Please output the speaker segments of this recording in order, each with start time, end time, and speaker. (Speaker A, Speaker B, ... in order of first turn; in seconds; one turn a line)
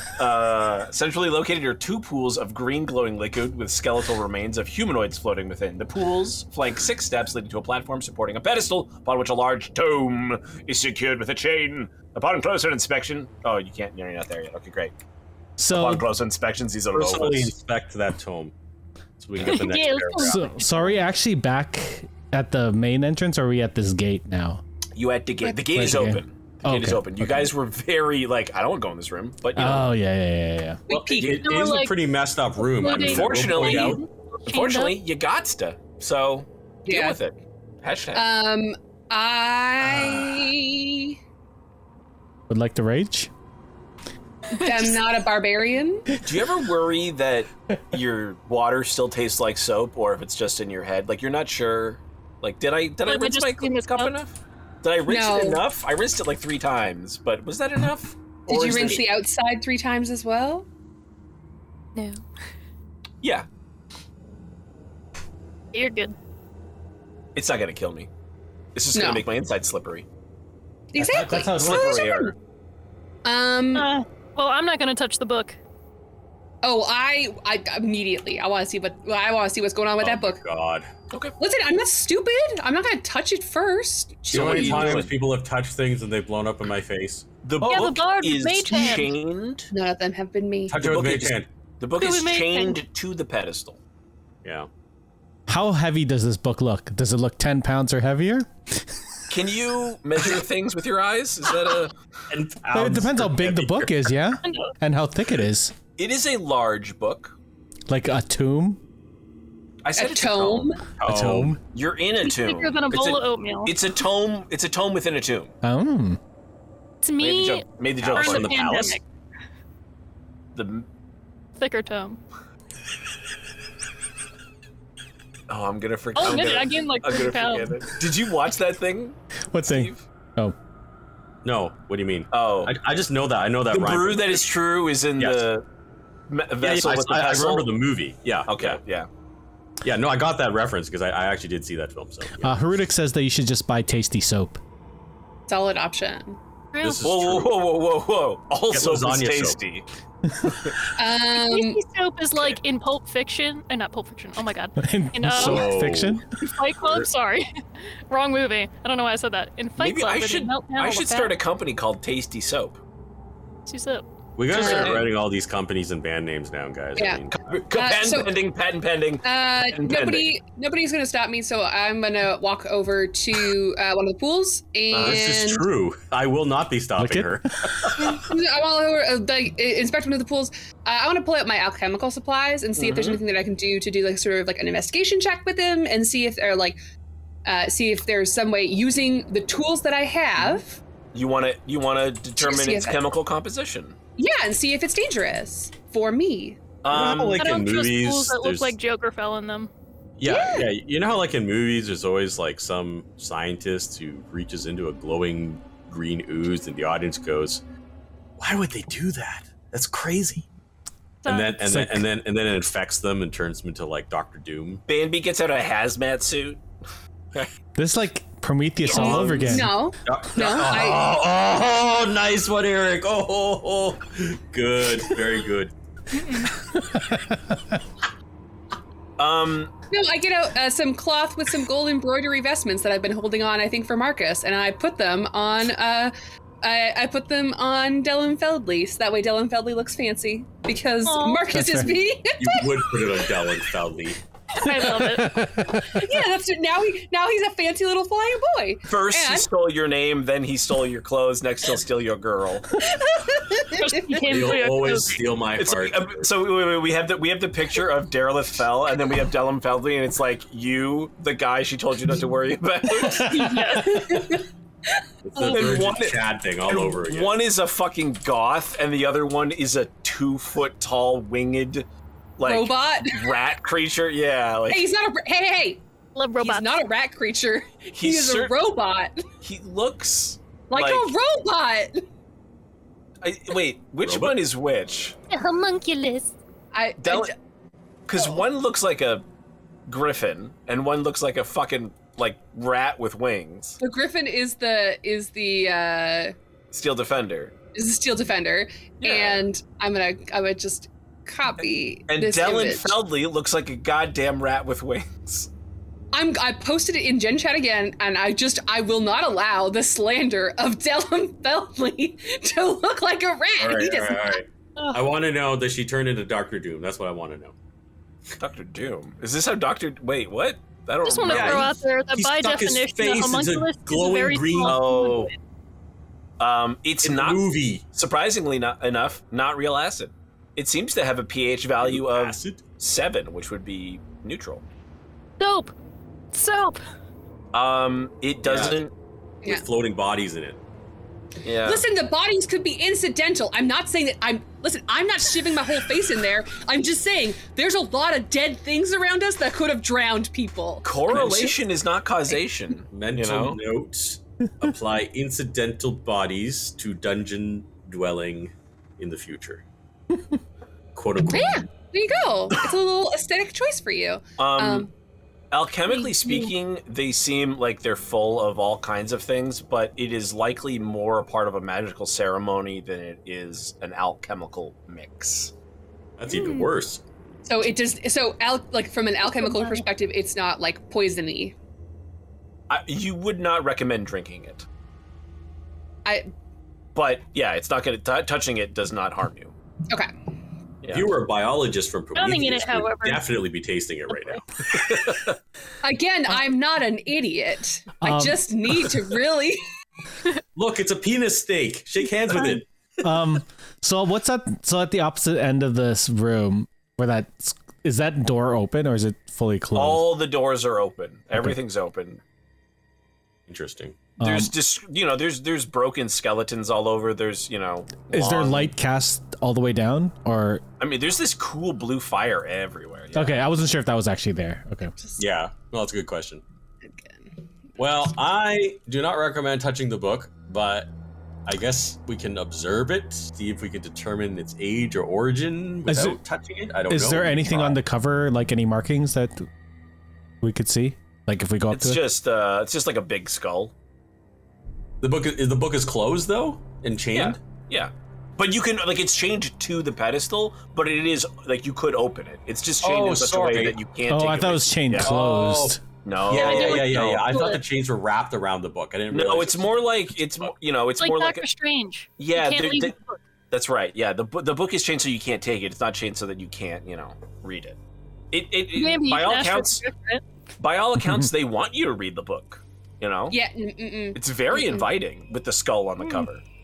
Speaker A: 0.2-15.0
Speaker B: 15.6-16.0
Speaker A: 15.7-17.6
Speaker C: 16.9-18.5
Speaker C: 19.2-20.4
Speaker D: 19.4-21.0
Speaker B: 20.2-24.6
Speaker A: 24.9-29.9
Speaker B: 25.7-27.5
Speaker B: 29.6-30.8
Speaker E: 30.9-31.4
Speaker C: 30.9-34.0
Speaker A: 31.2-31.5
Speaker D: 31.4-31.9
Speaker D: 32.6-35.0
Speaker A: 32.9-38.3
Speaker E: 36.9-37.2
Speaker E: 38.1-41.2
Speaker A: 39.9-40.5
Speaker B: 42.5-43.3
Speaker E: 44.5-46.1
Speaker D: 44.6-44.9
Speaker A: 46.2-59.1
Speaker D: 53.1-54.1
Speaker E: 55.1-55.6
Speaker E: 58.5-60.7
Speaker D: 62.0-62.2
Speaker D: 65.7-66.2
Speaker A: 67.3-68.1
Speaker A: 68.8-70.1
Speaker E: 68.9-69.2
Speaker E: 70.9-72.3
Speaker B: 71.0-72.0
Speaker A: 71.6-72.3
Speaker E: 73.2-73.9
Speaker D: 73.7-75.6
Speaker E: 76.6-80.4
Speaker C: 80.0-80.9
Speaker E: 81.4-85.1
Speaker C: 84.3-87.9
Speaker A: 84.3-85.2
Speaker A: 87.4-89.7
Speaker D: 87.7-89.1
Speaker E: 89.7-90.8
Speaker C: 90.7-91.5
Speaker A: 90.8-93.8
Speaker D: 92.0-92.8
Speaker C: 94.4-94.7
Speaker B: 95.5-98.9
Speaker A: 99.3-101.9
Speaker C: 102.3-104.1
Speaker B: 102.7-105.8
Speaker D: 104.4-104.7
Speaker A: 106.0-107.3
Speaker B: 107.9-108.8
Speaker A: 109.8-110.8
Speaker E: 110.0-110.8
Speaker C: 111.0-111.6
Speaker B: 111.0-111.6
Speaker A: 111.7-115.5
Speaker D: 112.2-113.8
Speaker B: 115.6-116.2
Speaker D: 117.0-119.0
Speaker A: 117.2-118.8
Speaker C: 118.0-119.0
Speaker A: 120.5-120.9
Speaker D: 121.6-122.2
Speaker A: 125.5-130.0
Speaker D: 126.2-127.9
Speaker B: 129.5-130.6
Speaker C: 131.4-134.5
Speaker A: 132.3-132.7
Speaker A: 133.7-135.7
Speaker C: 135.2-135.5
Speaker A: 136.3-137.8
Speaker C: 136.6-138.8
Speaker A: 138.5-139.1
Speaker C: 139.8-142.6
Speaker B: 142.4-144.6
Speaker E: 145.5-146.4
Speaker D: 146.7-147.0
Speaker C: 146.8-147.6
Speaker A: 147.0-149.8
Speaker C: 148.7-149.6
Speaker A: 150.4-150.8
Speaker E: 151.0-151.8
Speaker D: 151.3-155.8
Speaker B: 154.8-156.2
Speaker C: 155.3-156.2
Speaker D: 156.4-161.3
Speaker C: 156.8-157.1
Speaker A: 159.8-162.8
Speaker D: 163.7-164.9
Speaker C: 164.4-167.6
Speaker A: 164.5-165.1
Speaker E: 164.5-165.0
Speaker E: 167.0-168.3
Speaker A: 167.3-170.3
Speaker E: 169.2-175.7
Speaker A: 174.9-175.2
Speaker C: 174.9-178.2
Speaker B: 177.0-177.9
Speaker E: 178.0-186.8
Speaker A: 182.8-183.2
Speaker E: 187.5-190.8
Speaker A: 191.1-194.0
Speaker E: 192.4-193.1
Speaker E: 194.2-196.6
Speaker A: 196.8-197.5
Speaker C: 196.9-198.7
Speaker D: 197.4-199.7
Speaker C: 200.2-207.6
Speaker E: 200.2-200.7
Speaker C: 208.4-210.5
Speaker D: 211.2-211.6
Speaker C: 211.3-214.8
Speaker B: 211.6-212.1
Speaker A: 214.9-216.6
Speaker B: 217.8-219.7
Speaker D: 218.8-219.3
Speaker C: 218.9-225.7
Speaker E: 219.4-221.1
Speaker D: 226.1-226.5
Speaker A: 229.2-229.7
Speaker E: 229.9-243.0
Speaker D: 241.1-241.6
Speaker B: 241.5-242.0
Speaker C: 242.4-244.2
Speaker D: 244.6-245.3
Speaker B: 244.7-246.2
Speaker E: 245.8-249.5
Speaker A: 248.9-252.8
Speaker E: 252.8-254.5
Speaker D: 253.7-255.3
Speaker C: 254.2-256.3
Speaker A: 255.6-263.9
Speaker D: 263.2-264.4
Speaker E: 263.3-265.0
Speaker C: 265.2-267.4
Speaker D: 265.4-265.7
Speaker A: 265.4-271.9
Speaker A: 272.4-274.9
Speaker E: 272.4-273.4
Speaker E: 274.7-275.8
Speaker D: 276.1-276.8
Speaker E: 276.4-279.3
Speaker A: 278.0-278.6
Speaker A: 279.4-281.1
Speaker E: 280.7-282.0
Speaker A: 283.2-285.2
Speaker C: 284.0-284.4
Speaker D: 285.3-286.3
Speaker E: 286.7-287.3
Speaker A: 287.0-287.3
Speaker A: 288.1-289.2
Speaker A: 289.9-293.8
Speaker E: 293.8-296.4
Speaker A: 296.7-297.5
Speaker E: 297.8-303.0
Speaker A: 299.0-299.5
Speaker A: 302.1-305.5
Speaker E: 306.1-314.4
Speaker C: 313.6-317.6
Speaker D: 314.8-315.0
Speaker A: 318.4-321.8
Speaker D: 321.0-325.4
Speaker C: 321.3-324.9
Speaker A: 324.6-325.3
Speaker A: 326.4-334.6
Speaker C: 327.0-327.9
Speaker C: 331.8-332.7
Speaker D: 335.4-335.7
Speaker D: 336.3-336.8
Speaker A: 337.5-338.9
Speaker C: 338.4-338.8
Speaker C: 339.5-340.6
Speaker A: 341.4-341.9
Speaker E: 341.6-351.6
Speaker A: 350.8-353.6
Speaker C: 351.1-351.5
Speaker C: 352.9-359.6
Speaker C: 360.9-361.6
Speaker E: 361.3-364.9
Speaker A: 364.4-364.9
Speaker A: 365.5-375.5
Speaker C: 376.2-377.0
Speaker E: 376.3-376.7
Speaker E: 377.5-381.5
Speaker D: 379.3-379.8
Speaker A: 382.7-384.7
Speaker E: 386.1-386.3
Speaker A: 386.9-389.5
Speaker A: 390.8-391.2
Speaker C: 390.9-394.8
Speaker D: 392.1-393.2
Speaker D: 394.1-394.4
Speaker A: 394.6-395.4
Speaker E: 395.8-399.6
Speaker B: 398.0-398.9
Speaker C: 400.6-403.2
Speaker B: 403.0-410.1
Speaker A: 409.8-412.2
Speaker C: 413.5-414.0
Speaker B: 414.2-414.5
Speaker A: 414.2-418.7
Speaker B: 418.1-420.6
Speaker A: 420.8-423.4
Speaker B: 423.1-424.9
Speaker E: 425.0-425.2
Speaker C: 425.2-426.4
Speaker E: 426.9-427.3
Speaker C: 427.8-430.9
Speaker C: 431.5-437.8
Speaker B: 435.9-436.2
Speaker B: 436.9-439.5
Speaker B: 440.4-442.0
Speaker A: 441.7-443.7
Speaker C: 445.0-447.4
Speaker A: 447.1-455.1
Speaker C: 452.8-453.8
Speaker B: 454.1-455.8
Speaker C: 455.0-459.9
Speaker A: 456.0-457.3
Speaker D: 456.3-457.6
Speaker A: 459.1-461.5
Speaker D: 461.0-463.2
Speaker A: 462.2-462.9
Speaker A: 463.5-467.8
Speaker A: 468.3-469.8
Speaker D: 468.7-470.2
Speaker A: 470.6-473.4
Speaker B: 471.0-471.3
Speaker E: 473.3-474.9
Speaker A: 474.1-476.4